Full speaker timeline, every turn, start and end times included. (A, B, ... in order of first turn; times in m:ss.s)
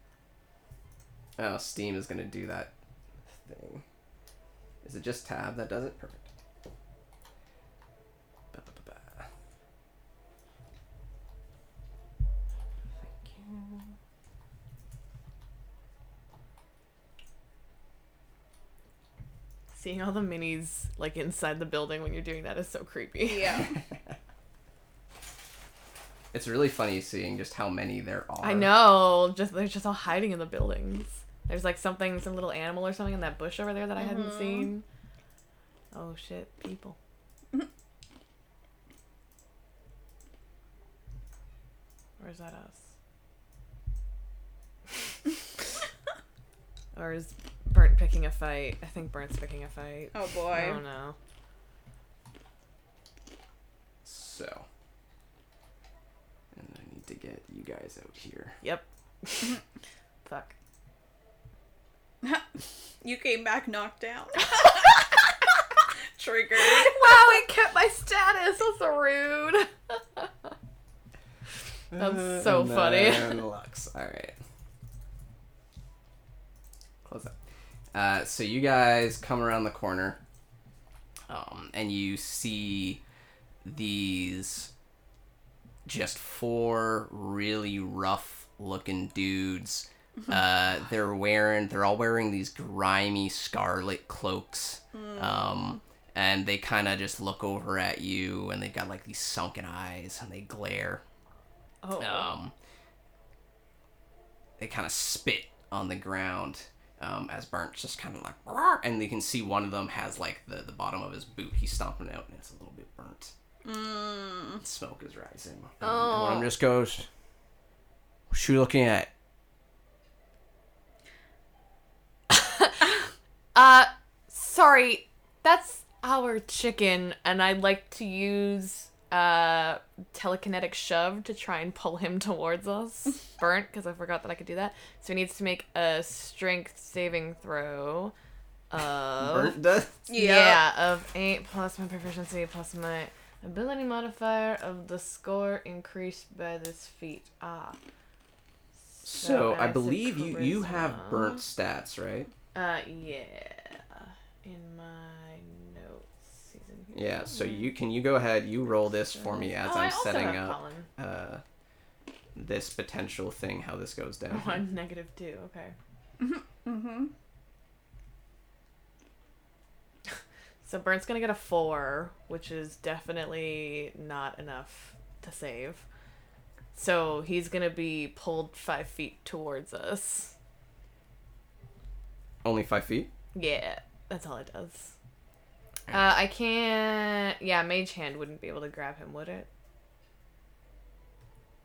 0:01.4-0:02.7 A
0:03.3-0:03.8 A
0:04.8-0:06.3 A
0:08.5-0:09.3 A
0:13.0-0:13.5 A
0:19.7-0:23.7 B
0:23.2-0:23.7 C
0:26.3-0:29.0 A
0:28.4-0:34.8 B
0:34.0-0:34.7 C
0:35.9-0:37.0 B
0:42.2-0:42.8 B
0:47.0-0:51.2 B
0:50.1-0:50.8 C
0:54.0-0:54.7 A
0:56.5-0:58.6 A
0:58.6-0:59.6 B
1:00.2-1:00.5 B
1:02.2-1:04.8 C
1:06.1-1:07.4 C
1:06.6-1:10.5 B
1:11.9-1:14.4 A
1:11.9-1:13.4 B
1:17.0-1:17.3 A
1:17.9-1:20.2 A
1:21.3-1:23.0 A
1:23.6-1:24.7 A
1:25.9-1:41.0 A
1:34.9-1:35.8 C
1:41.8-1:42.3 B
1:42.0-1:42.5 A
1:44.6-1:53.3 A
1:53.6-1:54.6 C
1:54.6-1:57.1 A
1:55.8-1:56.5 B
1:58.3-1:59.1 A
2:02.3-2:02.8 B
2:03.6-2:18.1 B
2:18.7-2:19.6 B
2:19.2-2:20.0 A
2:20.1-2:20.6 C
2:20.1-2:27.8 B
2:29.0-2:31.4 B
2:29.0-2:32.3 A
2:32.5-2:37.6 B
2:36.9-2:41.4 A
2:39.2-2:40.9 B
2:42.4-2:44.6 A
2:44.3-2:45.7 B
2:46.2-2:47.1 C
2:50.6-2:55.8 B
2:56.8-3:00.3 B
3:02.4-3:03.1 A
3:03.4-3:04.9 B
3:05.9-3:09.5 B